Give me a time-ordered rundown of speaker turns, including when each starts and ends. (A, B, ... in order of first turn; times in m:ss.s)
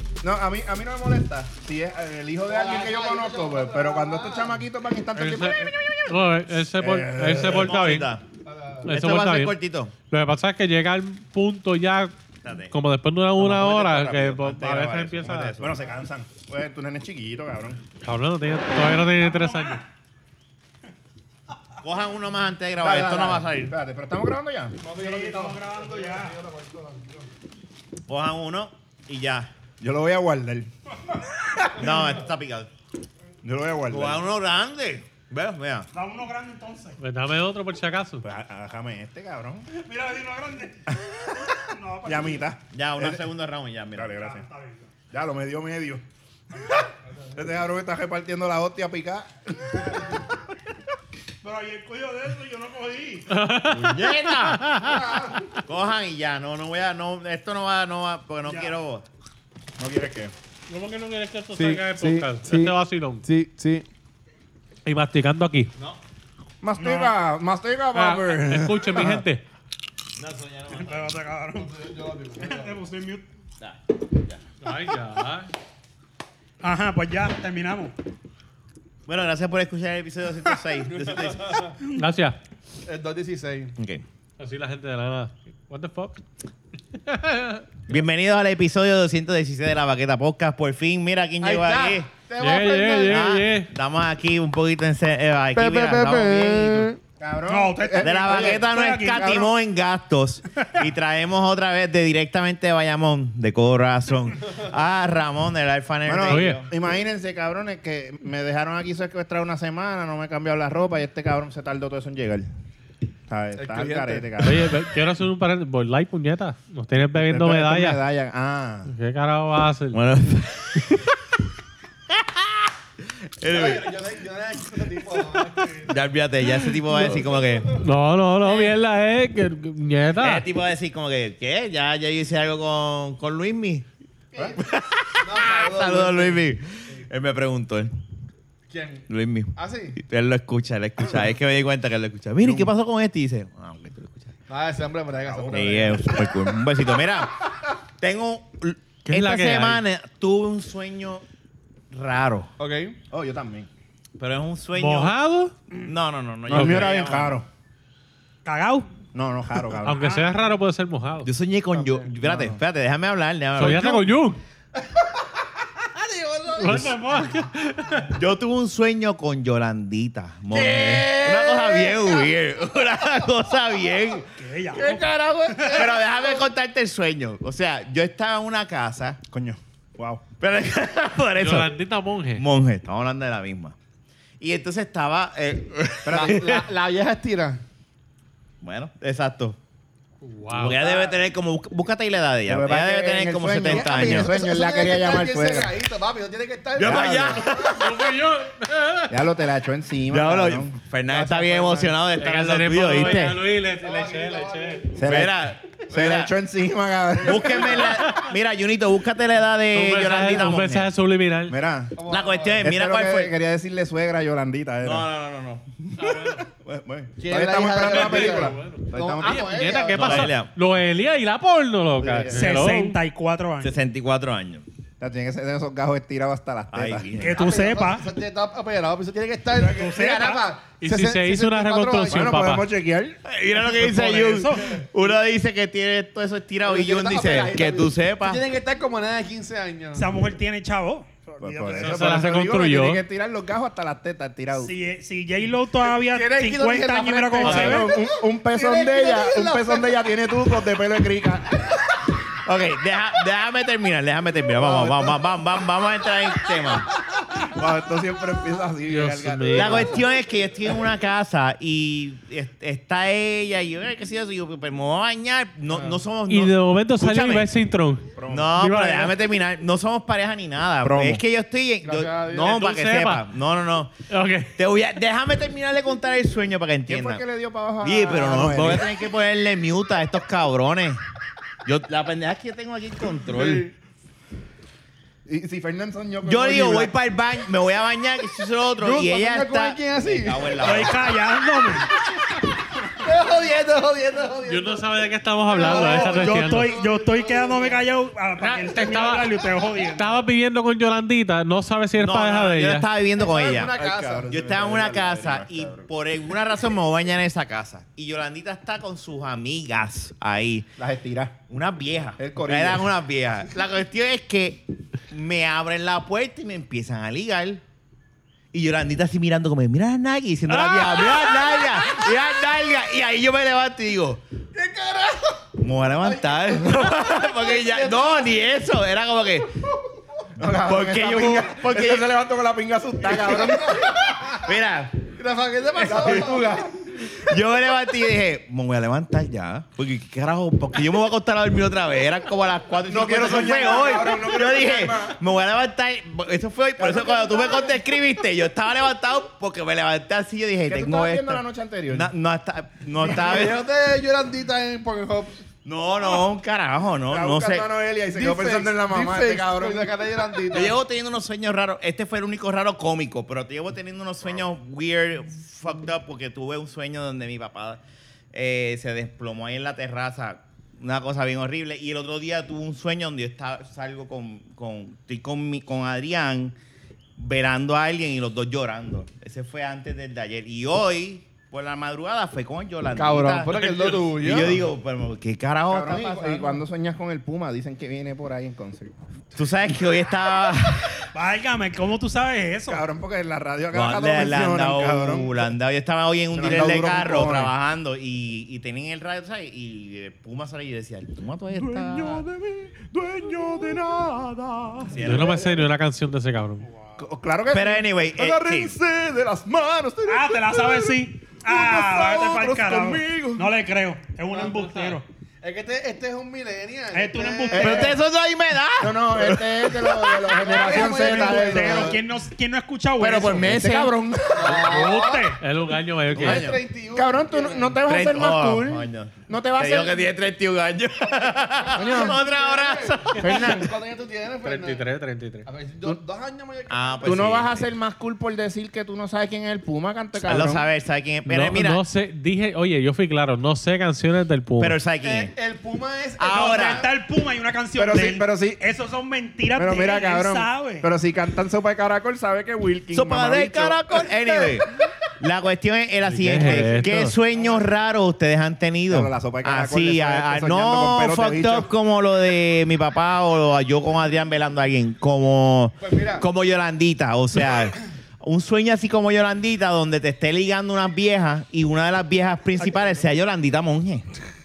0:00.2-0:07.8 A
0:02.5-0:04.6 B
0:05.2-0:08.1 C
0:07.4-0:08.2 D
0:08.4-0:08.9 B
0:08.9-0:09.6 C
0:08.9-0:09.9 D
0:10.1-0:12.2 C
0:12.4-0:12.7 D
0:12.7-0:15.6 C
0:13.4-0:15.8 D
0:15.6-0:17.8 A
0:18.0-0:19.8 C
0:19.2-0:19.8 E
0:21.8-0:23.7 D
0:22.8-0:24.8 A
0:24.8-0:27.3 B
0:24.9-0:26.4 E
0:28.1-0:29.5 D
0:29.8-0:31.9 A
0:31.7-0:32.7 D
0:33.4-0:34.2 A
0:33.9-0:35.9 D
0:35.9-0:37.0 E
0:37.0-0:38.2 C
0:38.2-0:39.7 A
0:39.7-0:42.5 E
0:41.0-0:43.2 A
0:42.7-0:44.2 D
0:44.0-0:44.4 A
0:44.2-0:44.9 E
0:45.1-0:46.0 A
0:47.3-0:50.2 A
0:51.4-0:53.4 E
0:53.3-0:55.1 C
0:53.7-0:54.7 D
0:55.0-0:55.3 B
0:55.7-0:59.1 D
0:59.8-1:00.3 A
1:00.7-1:03.2 C
1:01.6-1:03.9 B
1:04.8-1:05.7 C
1:06.6-1:09.2 A
1:06.8-1:07.1 E
1:07.9-1:09.4 C
1:10.2-1:11.1 D
1:10.7-1:11.7 E
1:11.5-1:12.8 B
1:12.4-1:13.2 E
1:13.6-1:14.4 D
1:14.6-1:15.5 C
1:16.6-1:17.9 E
1:19.1-1:21.4 D
1:20.9-1:21.8 B
1:21.9-1:22.4 C
1:22.8-1:23.8 B
1:23.8-1:24.0 D
1:24.4-1:26.2 C
1:27.0-1:27.7 C
1:27.9-1:32.1 D
1:31.4-1:33.3 B
1:32.4-1:33.7 C
1:33.0-1:36.9 D
1:35.5-1:37.0 B
1:37.2-1:39.5 A
1:37.5-1:39.4 E
1:38.0-1:46.7 D
1:46.1-1:52.5 A
1:46.3-1:46.6 C
1:53.3-1:54.8 A
1:53.6-1:54.3 B
1:54.4-1:58.0 C
1:57.2-1:58.9 A
1:58.9-2:00.0 C
1:59.9-2:01.1 D
2:02.1-2:03.9 D
2:03.5-2:06.0 B
2:05.9-2:07.8 D
2:06.9-2:07.8 B
2:07.8-2:10.4 C
2:08.4-2:08.8 D
2:10.2-2:13.9 D
2:14.5-2:17.9 D
2:15.2-2:16.4 B
2:18.7-2:20.0 B
2:19.1-2:24.3 D
2:22.4-2:22.7 A
2:24.5-2:26.2 B
2:25.2-2:26.0 A
2:25.5-2:27.4 D
2:28.0-2:31.2 D
2:29.0-2:29.8 C
2:31.9-2:32.5 D
2:32.6-2:33.0 B
2:33.1-2:33.7 A
2:34.2-2:35.1 D
2:34.8-2:35.6 C
2:35.7-2:37.4 D
2:36.5-2:37.5 A
2:36.5-2:36.9 C
2:36.6-2:36.9 B
2:38.4-2:38.9 E
2:39.1-2:40.0 A
2:39.8-2:41.3 C
2:41.2-2:44.1 D
2:41.7-2:42.1 B
2:42.2-2:42.6 A
2:43.6-2:44.4 C
2:44.8-2:45.1 B
2:45.8-2:47.0 B
2:46.5-2:48.1 C
2:46.8-2:47.2 E
2:48.1-2:59.2 D
2:50.5-2:52.3 B
2:54.4-2:55.9 E
2:55.7-2:56.4 B
2:59.3-3:00.2 A
3:00.4-3:01.7 D
3:01.4-3:02.4 C
3:02.4-3:03.8 D
3:04.4-3:06.6 D
3:06.0-3:06.4 A
3:06.1-3:07.6 B
3:08.6-3:09.6 D
3:10.2-3:10.8 C
3:10.5-3:14.3 D
3:10.6-3:11.2 B
3:12.5-3:15.7 A
3:13.6-3:17.8 B
3:16.8-3:17.8 D
3:16.8-3:17.4 A
3:17.5-3:19.2 C
3:19.1-3:20.8 A
3:20.1-3:23.4 D
3:21.1-3:22.0 B
3:22.2-3:24.9 C
3:23.0-3:25.0 B
3:25.0-3:25.4 A
3:25.0-3:26.3 D
3:25.9-3:28.0 A
3:27.2-3:30.9 D
3:27.3-3:28.0 B
3:29.7-3:31.6 C
3:31.5-3:32.0 A
3:32.0-3:32.7 B
3:32.1-3:33.3 D
3:32.6-3:35.1 A
3:34.8-3:35.7 D
3:36.0-3:36.4 C
3:36.3-3:39.5 A
3:37.2-3:40.3 B
3:37.8-3:43.0 C
3:39.9-3:40.5 D
3:42.0-3:42.5 A
3:42.3-3:43.8 E
3:43.6-3:44.6 D
3:45.0-3:47.1 A
3:46.7-3:47.4 D
3:47.2-3:48.1 E
3:47.3-3:52.4 B
3:49.6-3:50.5 E
3:50.8-3:52.7 C
3:52.1-3:53.2 A
3:53.2-3:58.4 D
3:53.8-3:54.8 E
3:54.5-3:54.8 B
3:56.6-4:00.1 B
4:00.0-4:02.0 E
4:01.4-4:04.7 A
4:01.7-4:03.0 C
4:04.5-4:07.9 E
4:05.8-4:10.0 B
4:07.4-4:11.7 A
4:07.4-4:07.8 C
4:12.4-4:16.9 D
4:14.6-4:15.2 B
4:17.5-4:20.0 A
4:18.9-4:20.0 C
4:19.5-4:27.5 D
4:26.3-4:29.2 C
4:28.2-4:28.6 A
4:28.3-4:33.9 D
4:30.8-4:31.2 A
4:31.8-4:32.6 B
4:32.4-4:33.2 C
4:34.1-4:34.5 C
4:34.6-4:37.2 D
4:36.9-4:38.9 A
4:37.8-4:41.0 D
4:41.6-4:43.7 D
4:43.3-4:43.7 B
4:45.3-4:46.9 A
4:46.2-4:51.0 D
4:48.8-4:50.7 B
4:50.6-4:51.9 E
4:52.9-4:57.8 B
4:54.5-4:56.7 C
4:55.5-5:00.2 E
4:58.4-5:02.9 C
5:02.0-5:10.7 D
5:03.1-5:04.3 B
5:03.8-5:05.9 A
5:10.8-5:11.4 A
5:11.5-5:17.6 D
5:12.2-5:12.9 A
5:18.5-5:24.2 D
5:20.5-5:21.8 C
5:24.5-5:28.4 B
5:25.6-5:29.6 D
5:30.4-5:33.8 A
5:30.7-5:32.1 D
5:33.0-5:34.3 B
5:34.2-5:35.0 D
5:35.1-5:36.8 B
5:35.8-5:36.7 A
5:35.9-5:36.2 D
5:37.0-5:53.6 D
5:42.9-5:45.2 A
5:46.8-5:47.4 A
5:47.3-5:47.8 B
5:50.6-5:52.1 A
5:53.0-5:55.4 B
5:55.6-5:57.7 D
5:57.1-5:59.9 A
5:58.1-6:00.8 B
6:00.5-6:07.8 D
6:08.3-6:16.6 D
6:17.2-6:26.1 D
6:22.9-6:24.7 B
6:25.7-6:28.9 A
6:25.9-6:26.6 B
6:29.4-6:31.1 D
6:31.1-6:32.8 E
6:32.7-6:35.5 A
6:33.7-6:42.2 D
6:36.3-6:37.5 A
6:41.5-6:45.4 A
6:44.9-6:45.5 D
6:45.0-6:46.7 C
6:47.0-6:53.5 A
6:47.5-6:48.7 D
6:50.1-6:55.1 E
6:54.3-6:54.7 B
6:55.4-6:58.0 B
6:56.9-6:57.9 E
6:57.5-6:58.0 A
6:57.6-7:00.2 D
6:58.8-7:02.0 A
7:00.3-7:02.0 B
7:00.5-7:03.6 E
7:03.0-7:03.9 D
7:03.4-7:04.6 A
7:04.3-7:05.4 B
7:04.6-7:05.4 E
7:05.4-7:06.5 C
7:06.2-7:06.6 D
7:06.2-7:07.8 B
7:06.2-7:10.1 A
7:07.8-7:13.5 D
7:11.2-7:14.8 B
7:11.8-7:12.2 A
7:13.2-7:13.8 A
7:14.4-7:15.5 C
7:15.4-7:17.4 B
7:16.7-7:17.7 D
7:17.0-7:20.6 A
7:20.3-7:21.8 D
7:21.3-7:24.8 C
7:24.6-7:25.3 D
7:25.0-7:26.9 B
7:26.2-7:26.9 D
7:26.3-7:30.9 E
7:27.8-7:28.6 A
7:29.6-7:33.8 A
7:32.9-7:34.7 D
7:34.0-7:34.6 B
7:35.2-7:54.2 D
7:36.0-7:37.2 C
7:36.5-7:37.6 B
7:38.9-7:41.7 A
7:45.8-7:46.3 B